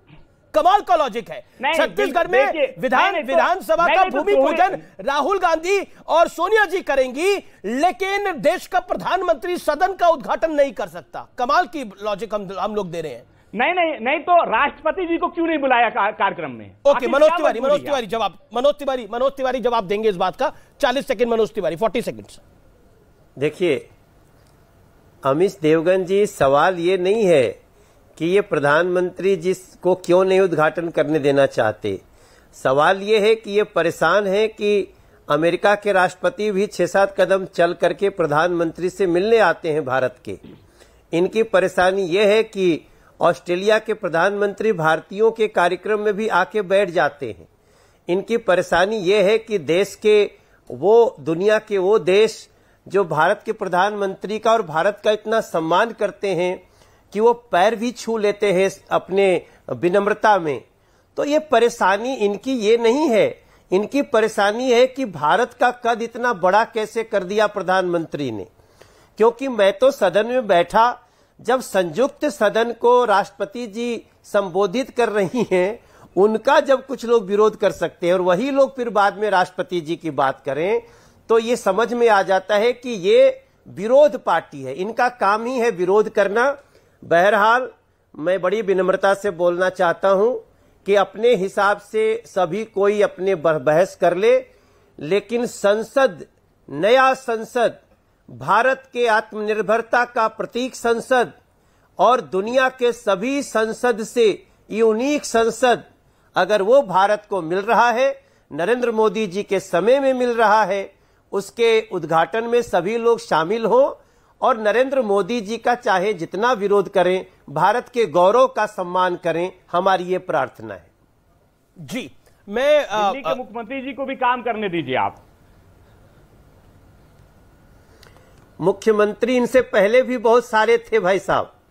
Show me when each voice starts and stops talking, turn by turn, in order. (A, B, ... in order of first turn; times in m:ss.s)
0:00.5-0:13.2 A
0:01.6-0:04.8 B
0:13.5-0:18.0 B
0:16.8-0:22.4 A
0:23.4-0:23.8 C
0:25.2-0:27.5 C
0:28.2-0:32.0 C
0:32.6-0:40.4 C
0:41.1-0:47.5 C
0:48.1-1:00.6 C
1:01.2-1:08.5 C
1:09.2-1:34.4 C
1:35.0-1:37.8 C
1:38.3-1:41.3 C
1:42.0-1:45.8 C
1:46.4-2:00.9 C
2:01.8-2:03.4 A
2:02.9-2:05.2 B
2:08.6-2:11.5 C